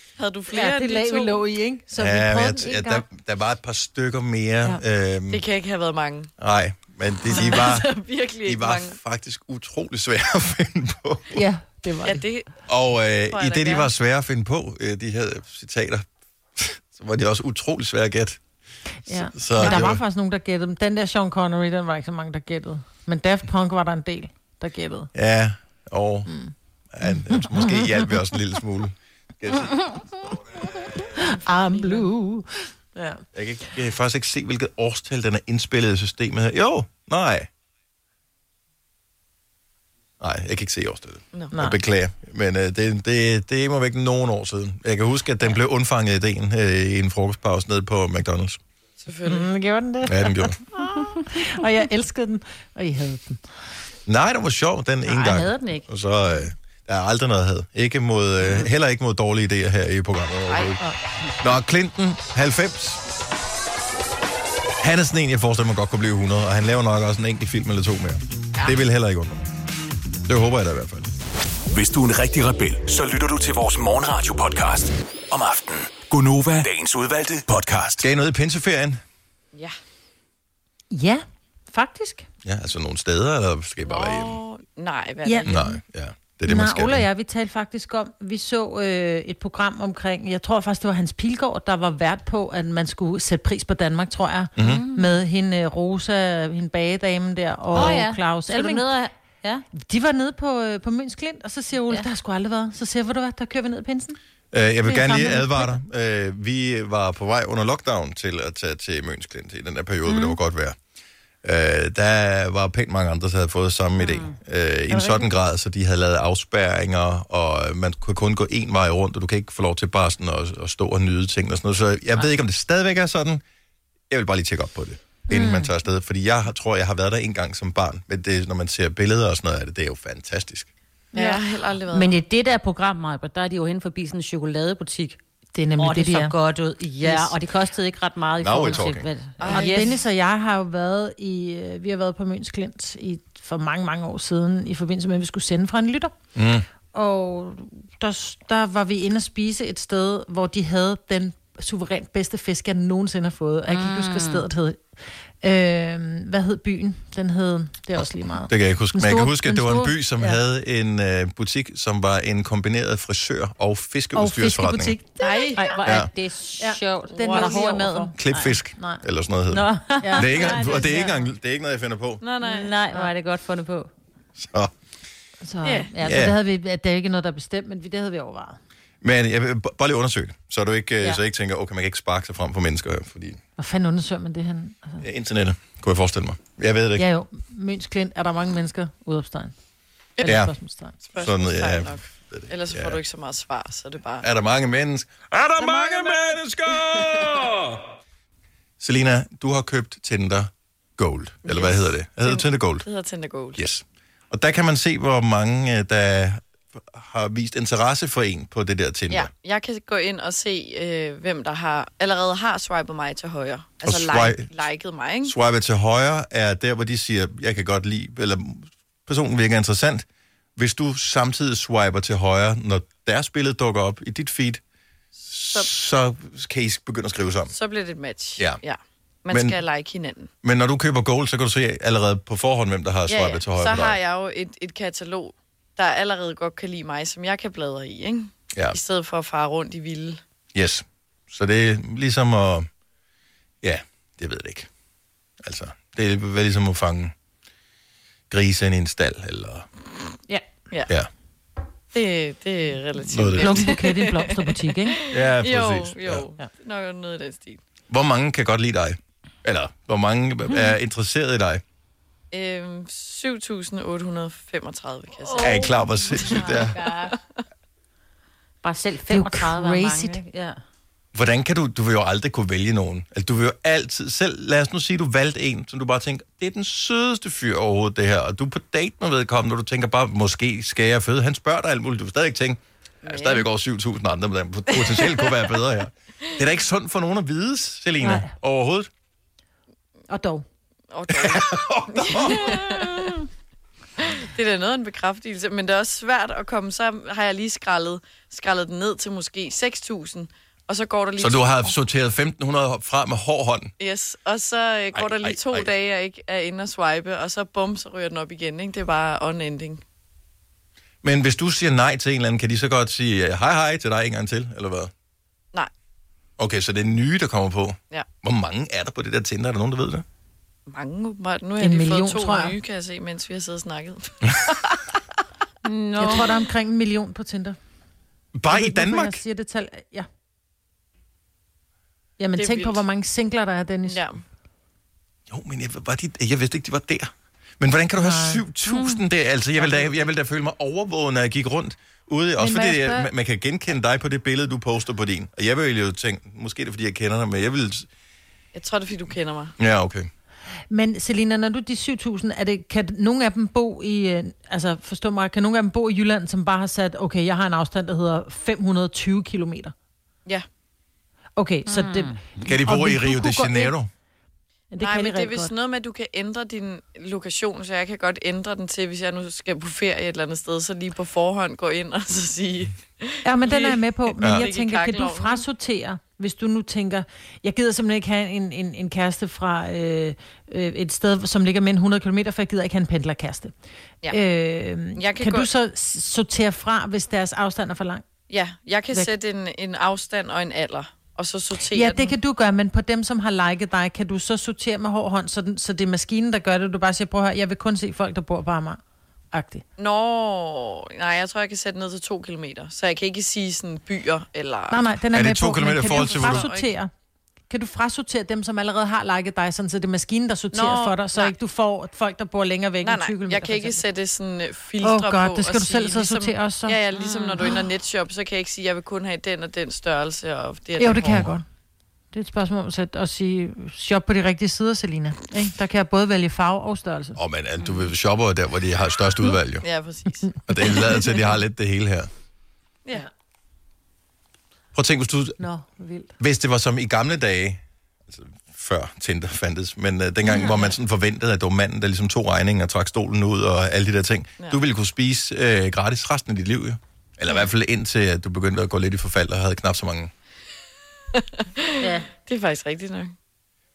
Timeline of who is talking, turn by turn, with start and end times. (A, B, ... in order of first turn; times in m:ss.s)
0:00.2-0:01.4 A
0:00.5-0:03.0 B
0:02.0-0:05.4 C
0:05.3-0:06.3 A
0:06.4-0:07.9 C
0:07.3-0:09.0 A
0:08.4-0:11.4 C
0:11.3-0:12.2 B
0:12.0-0:12.5 A
0:12.7-0:18.4 C
0:13.3-0:13.9 A
0:19.1-0:25.1 B
0:19.1-0:20.0 C
0:25.1-0:26.3 C
0:26.3-0:26.5 B
0:26.9-0:30.7 C
0:27.1-0:28.1 B
0:31.2-0:33.2 B
0:33.3-0:37.5 C
0:40.2-0:48.6 C
0:49.0-0:49.5 A
0:49.3-0:53.4 B
0:50.1-0:50.6 C
0:54.1-1:00.8 C
0:55.1-0:55.8 D
1:00.5-1:00.7 A
1:01.4-1:03.0 C
1:04.8-1:09.5 C
1:10.3-1:11.1 C
1:11.7-1:18.1 E
1:18.0-1:19.0 C
1:20.9-1:22.3 B
1:22.4-1:24.4 C
1:23.8-1:25.7 A
1:25.2-1:25.6 B
1:25.5-1:27.1 C
1:26.5-1:38.9 B
1:34.6-1:34.8 C
1:34.6-1:35.2 D
1:37.7-1:38.0 C
1:37.7-1:39.6 D
1:39.7-1:44.2 B
1:44.5-1:50.8 C
1:44.8-1:45.7 B
1:51.4-2:03.4 C
1:54.0-1:54.4 D
2:04.1-2:10.7 C
2:05.3-2:05.7 B
2:11.1-2:12.2 A
2:11.9-2:15.2 D
2:15.6-2:16.3 B
2:15.8-2:20.0 D
2:17.0-2:17.3 B
2:18.4-2:19.1 C
2:19.4-2:20.0 A
2:19.5-2:26.1 B
2:26.4-2:26.7 C
2:26.9-2:34.8 B
2:33.7-2:34.5 D
2:35.4-2:40.4 B
2:38.5-2:45.0 C
2:44.2-2:45.5 B
2:45.2-2:45.7 A
2:45.6-2:48.5 D
2:45.8-2:46.1 C
2:46.6-2:48.2 B
2:47.2-2:47.7 A
2:48.2-2:52.2 C
2:48.8-2:49.0 B
2:49.5-2:51.1 D
2:50.0-2:51.2 B
2:52.2-2:52.7 A
2:52.4-2:53.9 D
2:54.4-2:54.7 C
2:55.4-2:58.6 B
2:55.6-2:55.9 A
2:56.0-2:56.4 C
2:59.0-3:03.4 C
3:03.6-3:05.0 B
3:05.0-3:07.1 C
3:07.0-3:09.6 B
3:10.2-3:11.0 B
3:10.2-3:10.5 C
3:11.1-3:14.3 A
3:11.2-3:13.0 C
3:14.2-3:17.8 C
3:16.9-3:17.3 A
3:18.8-3:22.8 C
3:21.4-3:23.6 A
3:23.6-3:29.3 C
3:29.1-3:35.3 A
3:33.8-3:34.5 C
3:35.2-3:44.6 C
3:45.3-3:47.5 C
3:47.5-3:50.3 A
3:49.3-3:49.6 C
3:50.4-3:54.0 C
3:53.1-4:00.2 A
4:00.5-4:02.7 C
4:03.6-4:04.7 C
4:05.4-4:07.1 C
4:08.3-4:09.7 C
4:11.9-4:17.6 A
4:13.1-4:13.7 C
4:13.4-4:15.0 B
4:15.1-4:16.2 C
4:17.9-4:21.6 C
4:22.3-4:25.7 A
4:25.4-4:26.8 C
4:26.4-4:27.0 B
4:26.4-4:27.2 A
4:28.6-4:30.6 D
4:29.1-4:30.2 B
4:31.1-4:48.9 C
4:43.0-4:43.5 A
4:44.7-4:45.4 A
4:48.0-4:48.3 B
4:50.1-4:50.4 B
4:50.9-4:53.2 A
4:51.1-4:52.8 C
4:54.0-5:01.7 A
5:01.2-5:03.7 C
5:03.8-5:09.8 A
5:04.9-5:05.7 C
5:11.0-5:14.9 C
5:16.4-5:20.0 C
5:20.7-5:24.8 A
5:21.6-5:22.6 B
5:25.6-5:26.4 D
5:26.0-5:27.6 B
5:28.4-5:29.2 C
5:28.5-5:30.1 B
5:32.2-5:34.0 B
5:32.4-5:32.8 A
5:33.9-5:34.2 A
5:35.3-5:47.9 C
5:38.0-5:38.4 B
5:38.7-5:39.0 D
5:39.7-5:40.0 A
5:42.4-5:43.1 B
5:48.5-5:49.5 A
5:49.6-5:50.1 C
5:50.7-5:59.7 B
6:01.4-6:03.7 B
6:01.7-6:02.2 D
6:02.4-6:03.9 C
6:04.7-6:05.5 B
6:04.8-6:15.4 A
6:13.2-6:23.5 B
6:14.2-6:14.5 C
6:24.1-6:28.0 B
6:25.0-6:25.5 A
6:28.3-6:32.2 A
6:31.7-6:38.8 B
6:39.3-6:39.6 B
6:39.8-6:44.8 A
6:44.7-6:46.9 B
6:45.1-6:46.5 C
6:45.8-6:46.7 A
6:47.5-6:53.8 B
6:50.5-6:51.3 A
6:52.8-7:01.3 A
6:54.8-6:56.8 B
6:57.0-6:57.4 D
7:00.8-7:01.5 B
7:02.1-7:07.2 B
7:07.2-7:09.7 C
7:09.6-7:11.1 A
7:10.5-7:12.1 C
7:14.7-7:15.4 C
7:15.4-7:16.1 B
7:16.2-7:30.1 C
7:31.2-7:33.1 A
7:31.8-7:32.1 D